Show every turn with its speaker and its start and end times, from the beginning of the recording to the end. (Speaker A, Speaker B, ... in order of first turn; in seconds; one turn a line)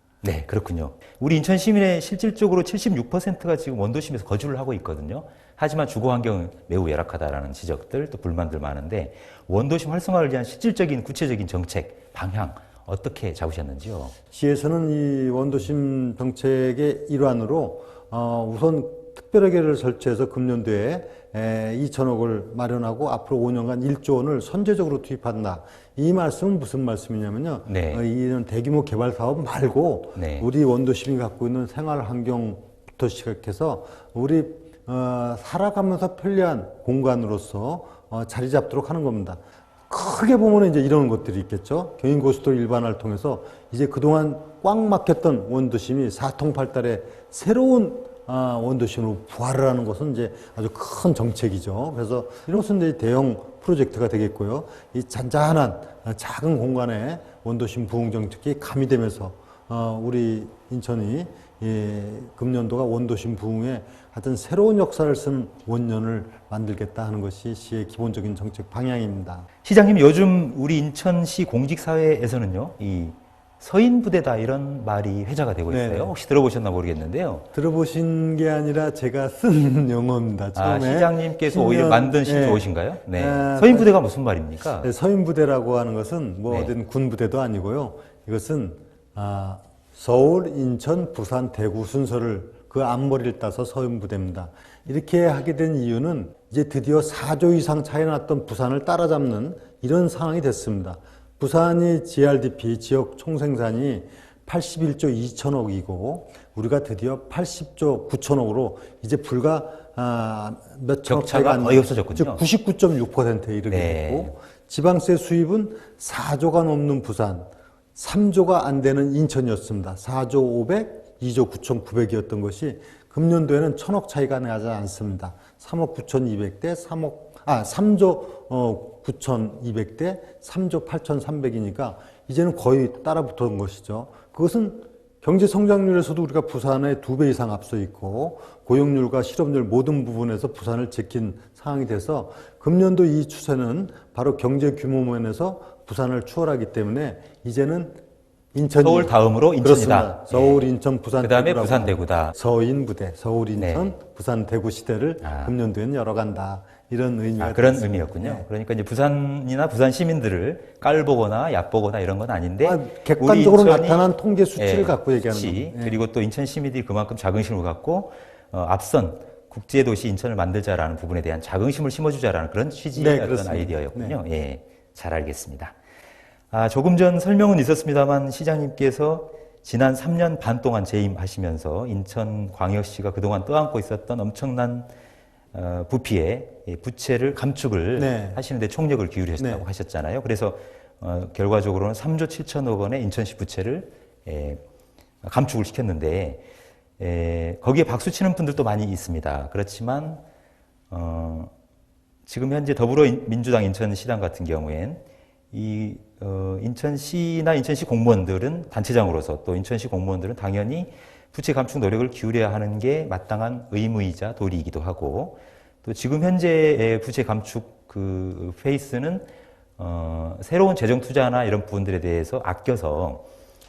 Speaker A: 0.2-14.2
Speaker B: 14.3-69.5
Speaker A: 27.6-28.0
Speaker A: 30.1-30.5
Speaker A: 69.6-77.5
Speaker B: 75.7-76.1
Speaker B: 77.5-83.9
Speaker A: 80.5-84.9
Speaker B: 84.8-148.0
Speaker A: 111.1-112.4
Speaker A: 113.7-114.3
Speaker B: 148.5-158.4
Speaker A: 148.8-150.7
Speaker A: 151.2-152.3
Speaker A: 153.6-153.9
Speaker A: 155.2-155.5
Speaker A: 157.4-164.0
Speaker B: 162.6-166.0
Speaker A: 164.6-175.8
Speaker B: 172.9-174.2
Speaker A: 176.5-184.9
Speaker A: 185.5-194.6
Speaker B: 188.0-188.4
Speaker B: 189.4-189.6
Speaker A: 195.2-196.4
Speaker A: 197.0-200.2
Speaker A: 200.9-201.5
Speaker A: 202.2-219.2
Speaker A: 219.8-223.2